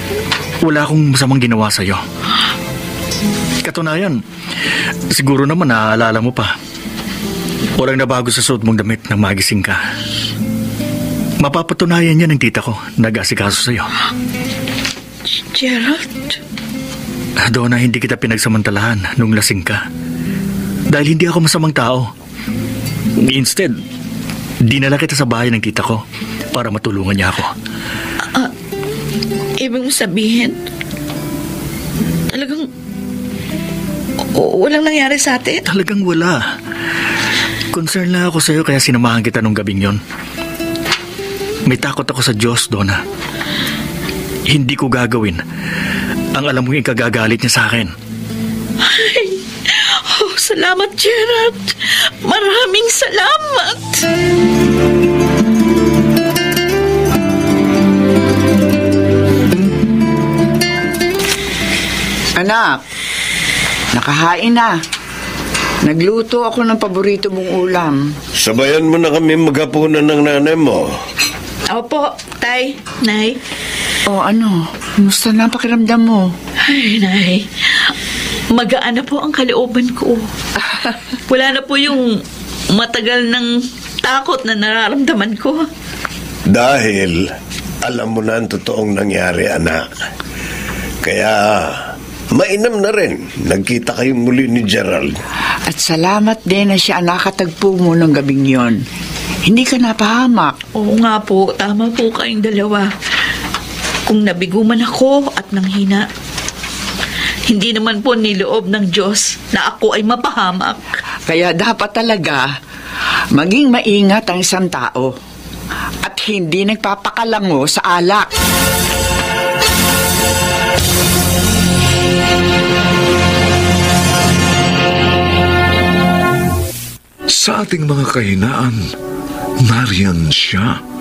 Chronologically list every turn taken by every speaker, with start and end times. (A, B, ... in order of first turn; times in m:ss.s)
0:00.6-0:02.0 A
0:03.6-0:04.2 A
0:05.1-0:06.5 A
0:07.8-0:09.8 A
0:11.4-0:13.9 A
0:15.4-0:16.4 B
0:17.4-0:19.8 A
0:20.9-0:22.1 A
0:23.1-0:23.8 A
0:24.6-0:27.5 A
0:29.6-0:30.6 B
0:32.3-0:32.7 B
0:34.3-0:35.6 B
0:35.7-0:36.5 A
0:37.7-0:40.0 A
0:41.6-0:43.0 A
0:44.5-0:45.4 A
0:46.3-0:47.9 A
0:48.8-0:54.0 B
1:02.4-1:02.8 C
1:03.9-1:04.8 C
1:05.8-1:08.0 C
1:08.4-1:10.9 D
1:11.7-1:13.4 B
1:14.1-1:16.3 C
1:16.6-1:17.9 B
1:18.5-1:20.3 B
1:21.3-1:22.2 B
1:22.7-1:23.5 B
1:24.0-1:25.6 B
1:26.5-1:27.2 D
1:27.8-1:29.9 D
1:31.0-1:35.2 D
1:35.7-1:38.8 C
1:39.5-1:40.6 C
1:40.8-1:42.9 B
1:44.1-1:46.1 B
1:47.5-1:51.0 B
1:51.3-1:52.5 C
1:53.3-1:55.1 C
1:56.0-1:58.3 C
2:07.4-2:08.8 E
2:09.6-2:10.8 E